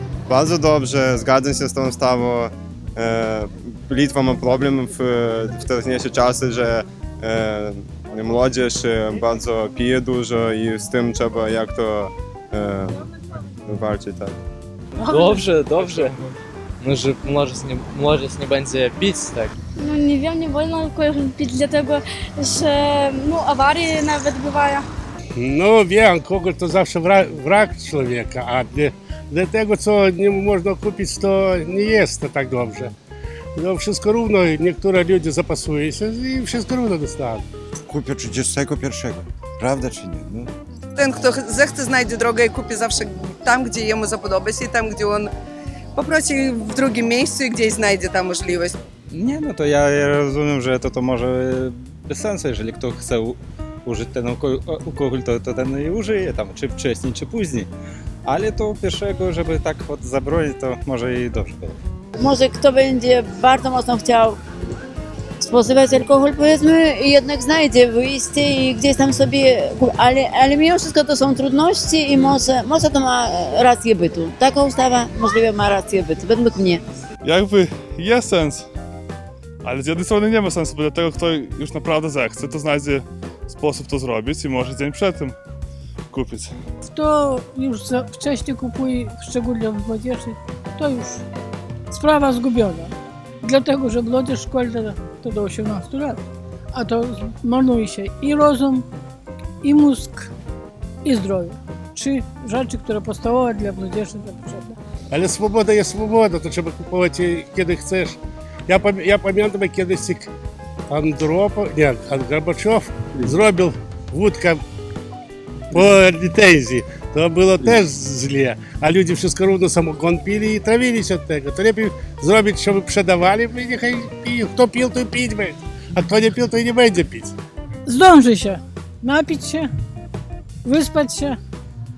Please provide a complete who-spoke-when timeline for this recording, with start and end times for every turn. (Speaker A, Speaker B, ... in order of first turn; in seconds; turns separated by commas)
Speaker A: 0.3-13.0, Speaker A: 13.7-14.4, Speaker B: 15.0-16.2, Speaker B: 16.8-19.5, Speaker C: 19.8-24.9, Speaker D: 25.4-32.9, Speaker D: 33.6-37.5, Speaker E: 37.9-40.5, Speaker F: 41.0-45.3, Speaker F: 46.0-48.8, Speaker G: 49.1-57.7, Speaker G: 58.3-61.8, Speaker H: 62.2-64.4, Speaker H: 65.4-76.8, Speaker I: 77.2-78.7, Speaker I: 79.6-85.4, Speaker I: 86.1-86.5, Speaker J: 86.8-91.2, Speaker J: 91.9-98.9, Speaker J: 99.6-100.3, Speaker J: 101.0-104.8, Speaker D: 105.1-110.3, Speaker D: 110.9-114.6, Speaker D: 115.7-127.3, Speaker J: 127.8-129.7, Speaker J: 130.6-131.4